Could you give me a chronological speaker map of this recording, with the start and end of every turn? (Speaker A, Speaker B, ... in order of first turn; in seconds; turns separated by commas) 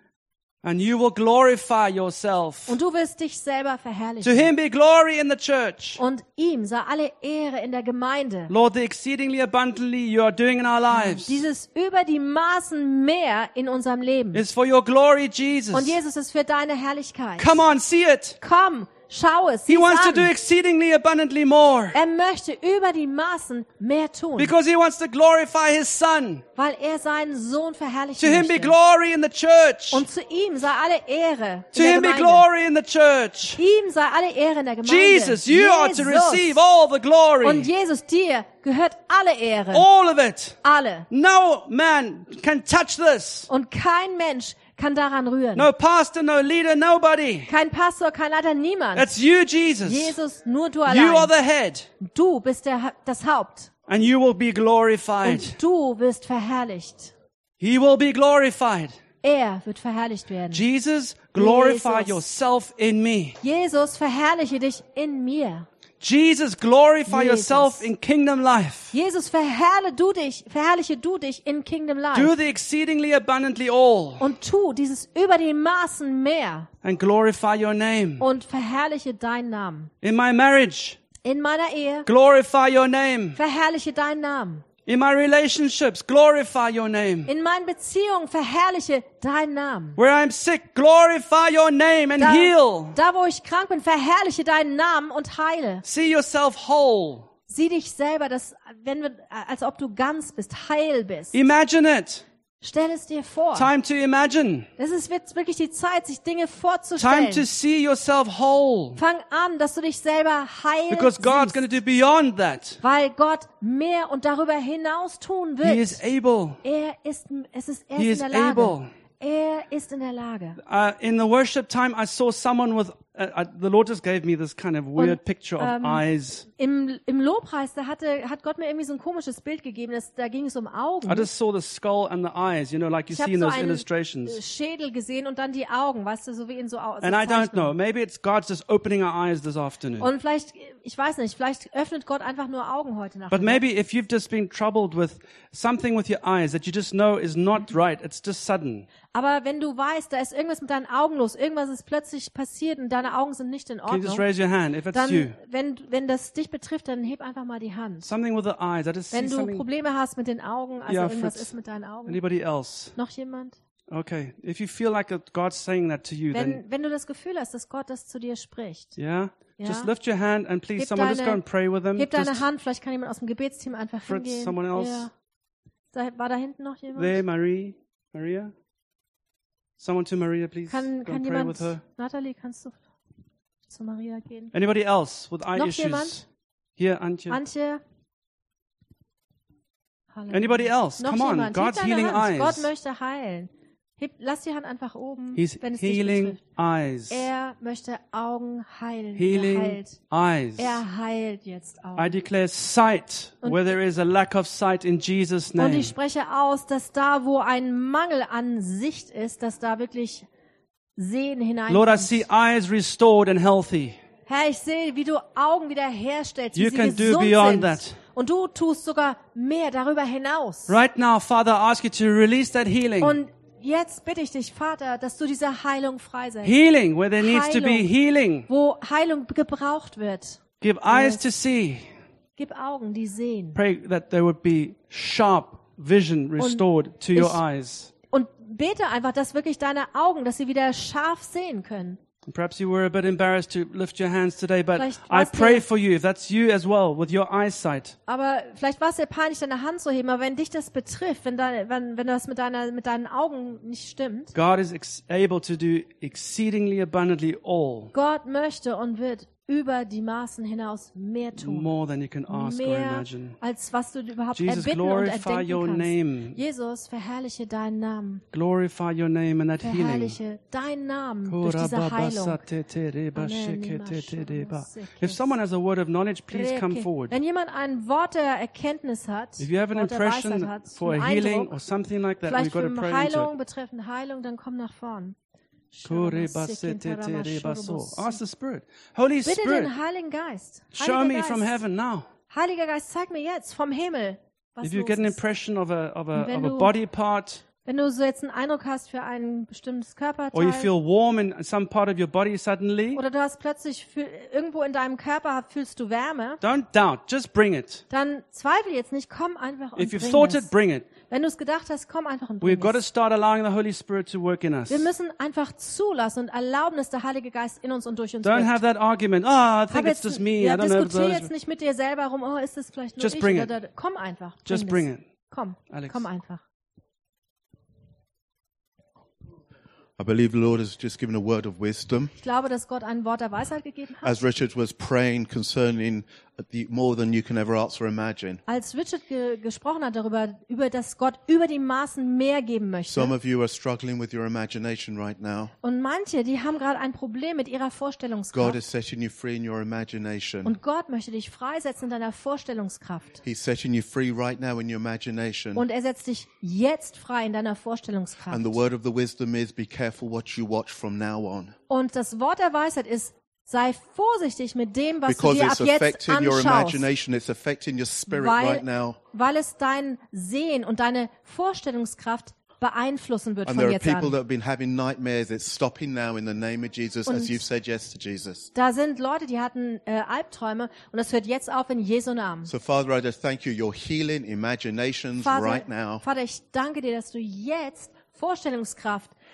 Speaker A: 0.6-2.8, Speaker B: 2.7-4.5, Speaker A: 4.2-6.0, Speaker B: 6.0-8.5, Speaker A: 8.5-11.4, Speaker B: 10.9-14.4, Speaker A: 14.3-16.0, Speaker B: 15.7-17.6, Speaker A: 17.4-18.4, Speaker B: 18.4-20.3, Speaker A: 19.7-22.0, Speaker B: 21.9-24.5, Speaker A: 24.4-26.4, Speaker B: 26.6-28.8, Speaker A: 28.2-30.1, Speaker B: 29.9-32.5, Speaker A: 31.7-33.6, Speaker B: 33.6-36.6, Speaker A: 34.8-37.7, Speaker B: 37.4-39.9, Speaker A: 39.7-40.6, Speaker B: 40.6-41.1, Speaker A: 41.1-43.5, Speaker B: 43.5-45.7, Speaker A: 45.5-47.5, Speaker B: 47.5-49.1, Speaker A: 48.9-50.2, Speaker B: 49.8-51.3, Speaker A: 50.9-51.9, Speaker B: 52.0-53.7, Speaker A: 53.9-55.6, Speaker B: 55.2-57.1, Speaker A: 57.6-59.0, Speaker B: 59.2-60.6, Speaker A: 60.5-63.4, Speaker B: 61.3-62.2, Speaker B: 63.4-65.7, Speaker A: 66.0-68.9, Speaker B: 67.1-67.9, Speaker B: 68.9-72.3, Speaker A: 72.1-74.3, Speaker B: 74.2-76.7, Speaker A: 76.8-78.3, Speaker B: 78.2-79.9, Speaker A: 80.0-81.0, Speaker B: 81.2-82.1, Speaker A: 82.0-83.4, Speaker B: 83.3-84.6, Speaker A: 84.8-87.3, Speaker B: 87.2-90.0, Speaker A: 90.0-93.0, Speaker B: 92.2-95.8, Speaker A: 95.8-97.3, Speaker B: 97.5-101.3, Speaker A: 101.3-102.2, Speaker B: 102.6-103.7, Speaker A: 103.5-104.7, Speaker B: 104.8-107.5, Speaker A: 107.0-109.0, Speaker B: 109.0-111.6, Speaker A: 110.9-112.8, Speaker B: 112.8-116.0, Speaker A: 115.6-116.6, Speaker B: 116.6-120.6, Speaker A: 117.9-118.9, Speaker A: 120.6-126.5, Speaker B: 125.0-131.3, Speaker A: 131.1-134.4, Speaker B: 133.1-137.7, Speaker A: 137.0-140.1, Speaker B: 140.0-143.6, Speaker A: 143.3-148.9, Speaker B: 149.1-154.2, Speaker A: 153.9-155.4, Speaker B: 154.9-158.1, Speaker A: 158.0-159.6, Speaker B: 159.1-162.2, Speaker A: 160.9-161.5, Speaker A: 162.1-162.9, Speaker B: 162.9-163.6, Speaker A: 163.9-166.6, Speaker B: 166.3-169.0, Speaker A: 169.0-172.4, Speaker B: 169.6-169.9, Speaker B: 170.7-171.4, Speaker B: 171.9-175.1, Speaker A: 174.1-175.1, Speaker B: 175.9-177.2, Speaker A: 176.9-178.5, Speaker A: 179.8-181.8, Speaker B: 180.7-182.8, Speaker B: 183.7-184.5, Speaker A: 184.5-186.2, Speaker B: 185.5-186.2, Speaker A: 186.8-187.4, Speaker B: 187.3-187.8, Speaker B: 190.1-196.4, Speaker A: 190.3-192.7, Speaker A: 195.3-197.3, Speaker B: 197.1-200.0, Speaker A: 199.1-200.8, Speaker B: 200.6-202.1, Speaker A: 201.9-205.9, Speaker B: 205.6-210.3, Speaker B: 211.0-212.2, Speaker A: 211.7-214.0, Speaker B: 214.2-220.8, Speaker A: 216.5-218.0, Speaker A: 220.7-223.2, Speaker B: 223.0-226.6, Speaker A: 226.4-228.5, Speaker B: 227.2-227.9, Speaker B: 228.5-231.2, Speaker A: 230.6-231.9, Speaker B: 232.4-233.6, Speaker A: 233.5-237.9, Speaker B: 236.4-237.4, Speaker B: 238.1-242.0, Speaker A: 242.2-248.0, Speaker B: 244.7-245.7, Speaker B: 248.1-254.3, Speaker A: 254.3-257.9, Speaker B: 257.9-261.7, Speaker A: 261.4-263.4, Speaker B: 262.3-268.2, Speaker A: 264.3-266.4, Speaker A: 268.3-270.2, Speaker B: 269.6-272.4, Speaker A: 271.2-277.1, Speaker B: 273.1-275.3, Speaker B: 276.3-281.6, Speaker A: 279.4-283.3, Speaker B: 282.2-285.2, Speaker B: 285.7-288.2, Speaker A: 285.8-289.7, Speaker B: 289.2-291.6, Speaker A: 290.7-292.1, Speaker B: 292.3-295.2, Speaker A: 294.6-297.4, Speaker B: 296.1-296.7, Speaker B: 297.6-300.7, Speaker A: 300.3-303.0, Speaker B: 302.9-306.4, Speaker A: 306.4-307.8, Speaker B: 307.9-310.5, Speaker A: 309.7-310.9, Speaker B: 311.0-312.8, Speaker A: 312.4-314.9, Speaker B: 314.7-318.6, Speaker A: 318.2-321.3, Speaker B: 319.7-326.4, Speaker A: 323.0-323.5, Speaker A: 324.4-325.1, Speaker A: 325.7-326.0, Speaker C: 330.0-332.1, Speaker B: 332.1-334.1, Speaker C: 334.0-338.4, Speaker B: 338.4-343.1, Speaker C: 342.9-345.5, Speaker B: 345.6-348.6, Speaker C: 348.3-350.6, Speaker B: 350.4-353.2, Speaker C: 353.2-355.6, Speaker B: 355.5-358.6, Speaker C: 358.3-361.5, Speaker B: 361.7-366.9, Speaker C: 365.1-369.0, Speaker B: 368.1-374.2, Speaker C: 373.4-378.5, Speaker B: 377.1-377.4, Speaker B: 378.5-382.5, Speaker C: 382.4-386.0, Speaker B: 385.2-389.1